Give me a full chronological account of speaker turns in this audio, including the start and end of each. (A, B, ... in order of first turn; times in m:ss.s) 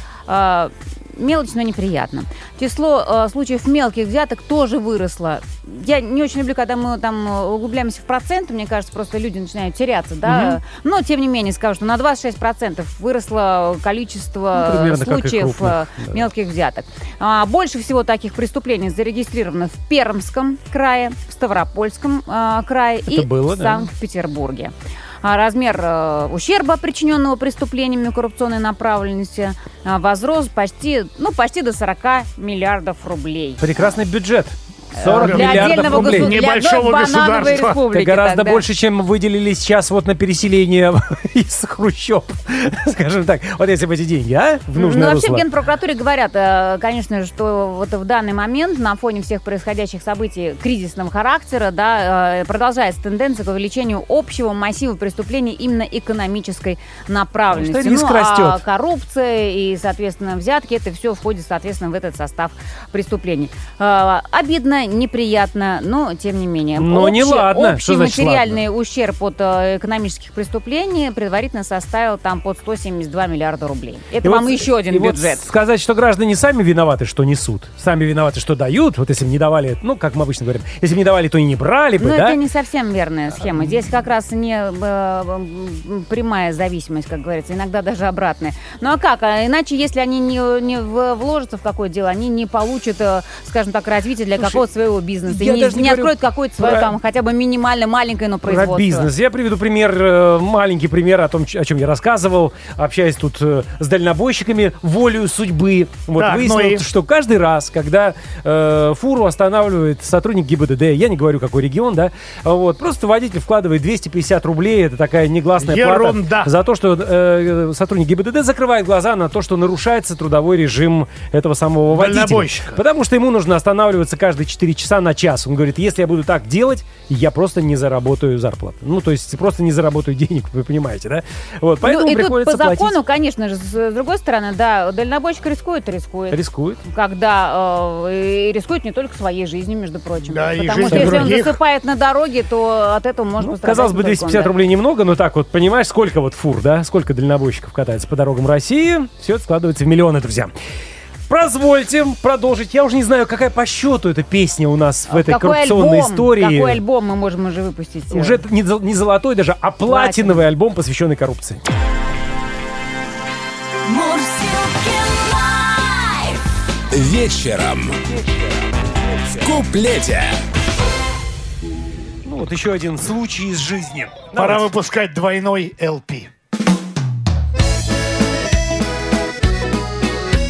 0:00.3-0:34.0 A
0:10.2-0:10.6 B
0:14.5-0:16.2 B
0:23.1-0:23.8 B
0:33.6-0:36.3 B
0:34.9-0:38.6 A
0:35.0-0:37.8 C
0:37.9-0:45.4 B
0:44.8-1:15.4 A
0:57.5-0:58.6 B
1:06.8-1:08.6 B
1:14.2-1:22.4 B
1:22.0-1:39.1 A
1:34.4-1:34.6 B
1:35.3-1:36.9 B
1:38.4-2:13.0 B
1:46.2-1:46.8 C
1:55.6-1:56.5 C
2:01.9-2:02.8 C
2:11.8-2:24.5 A
2:16.3-2:16.8 B
2:20.2-2:21.6 C
2:20.9-2:21.3 B
2:23.4-2:30.5 B
2:31.3-2:36.8 B
2:35.1-2:38.4 A
2:38.1-2:41.6 B
2:39.9-2:40.4 A
2:43.9-2:46.2 A
2:46.9-2:50.4 D
2:52.2-2:54.6 B
2:54.3-2:56.3 C